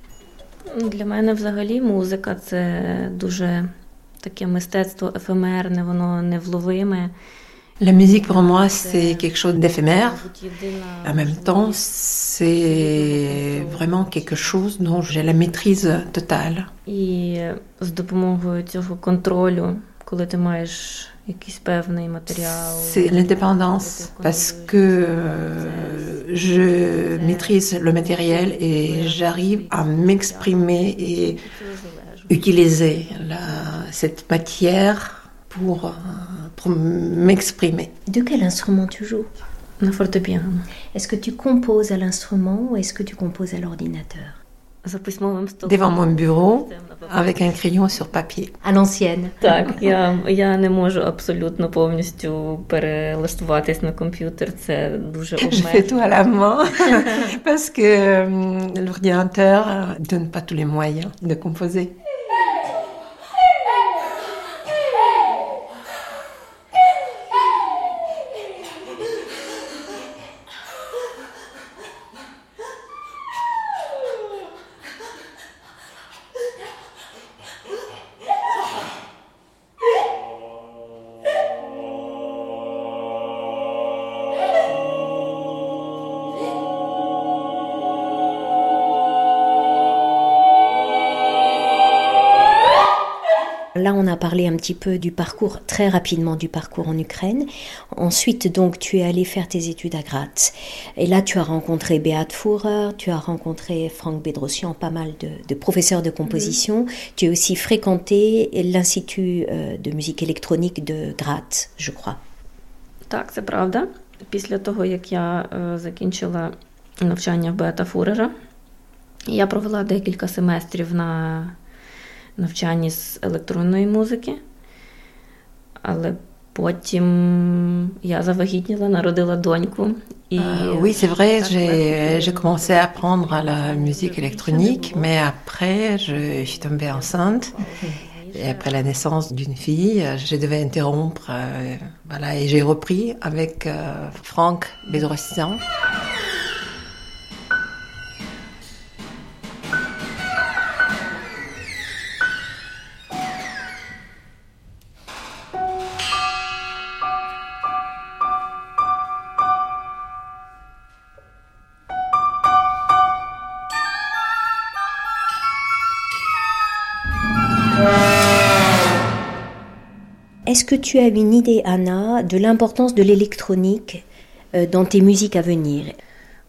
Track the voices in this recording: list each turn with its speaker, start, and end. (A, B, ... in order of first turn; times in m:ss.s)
0:00.7-0:07.1 A
0:07.8-0:10.3 B
0:08.0-0:11.9 A
0:11.0-0:16.7 B
0:12.5-0:14.6 A
0:16.9-0:33.8 A
0:22.3-0:31.4 B
0:32.3-0:37.9 B
0:38.1-0:39.3 C
0:39.8-0:40.7 A
0:40.9-0:44.4 C
0:44.8-0:47.7 A
0:45.6-0:48.6 B
0:48.6-0:49.5 C
0:49.4-0:56.1 A
0:55.4-1:02.0 B
1:33.8-1:52.2 C
1:46.3-1:46.6 A
1:53.1-1:58.3 A
1:59.3-2:01.6 A
2:02.4-2:04.4 A
2:05.8-2:15.2 A
2:10.4-2:17.7 B
2:16.1-2:18.9 A
2:18.3-2:25.6 B
2:50.5-2:56.0 C